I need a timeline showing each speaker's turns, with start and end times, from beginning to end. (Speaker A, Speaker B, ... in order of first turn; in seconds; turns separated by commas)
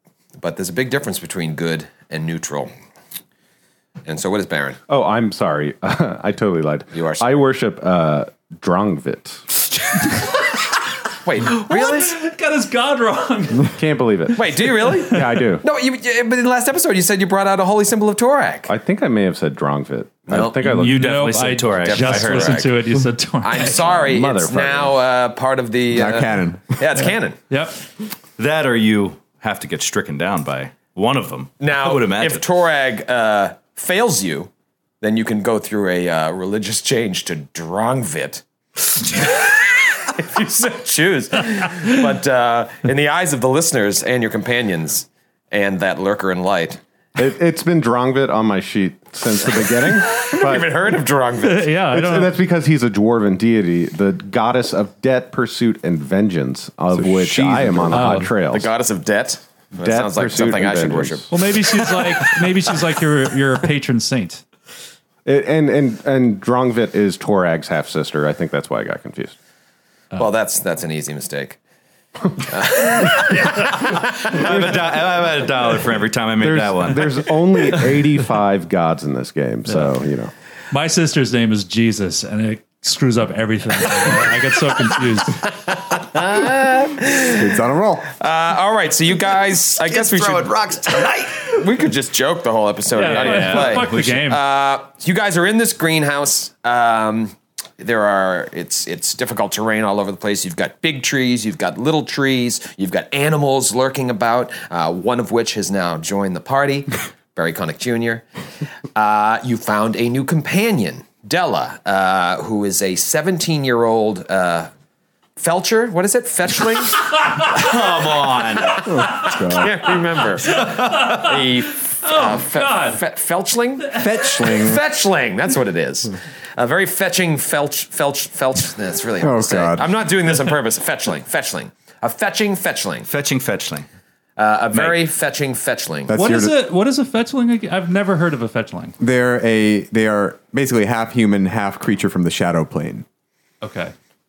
Speaker A: 0.4-2.7, Speaker A: 4.0-4.8, Speaker B: 4.9-9.5, Speaker A: 6.9-7.3, Speaker A: 11.2-12.2, Speaker C: 11.4-13.7, Speaker B: 13.6-15.6, Speaker A: 14.3-18.7, Speaker C: 14.8-15.4, Speaker B: 18.7-21.8, Speaker A: 20.3-20.7, Speaker C: 20.6-24.1, Speaker D: 20.7-22.6, Speaker A: 21.8-22.8, Speaker A: 23.4-27.4, Speaker B: 23.7-24.9, Speaker E: 25.9-26.8, Speaker C: 27.5-27.8, Speaker D: 28.4-32.4, Speaker A: 31.6-34.5, Speaker A: 35.0-46.8, Speaker B: 47.1-50.9, Speaker A: 50.1-51.7, Speaker C: 51.4-52.4, Speaker B: 51.9-58.7, Speaker E: 56.9-58.3, Speaker C: 57.9-58.3, Speaker A: 58.4-61.3, Speaker B: 59.8-61.3, Speaker C: 61.3-64.4, Speaker B: 65.2-69.3, Speaker A: 70.1-71.6, Speaker A: 72.4-74.4, Speaker D: 73.9-77.3, Speaker B: 74.5-75.0, Speaker B: 76.4-80.3, Speaker C: 79.7-79.9, Speaker C: 80.7-85.5, Speaker A: 85.9-87.5, Speaker E: 87.3-88.1, Speaker A: 88.0-108.2, Speaker D: 90.0-91.4, Speaker C: 92.9-94.4, Speaker D: 93.0-94.1, Speaker A: 108.9-114.7, Speaker A: 115.4-117.0, Speaker D: 117.5-118.9, Speaker E: 118.8-119.8, Speaker A: 119.5-133.1, Speaker C: 120.5-123.0, Speaker C: 123.9-124.5, Speaker E: 123.9-124.8, Speaker E: 129.2-129.9, Speaker D: 133.1-133.9, Speaker A: 134.4-136.1, Speaker D: 134.7-135.0, Speaker E: 136.1-136.5, Speaker C: 136.1-138.9, Speaker E: 139.0-143.0, Speaker C: 143.6-143.9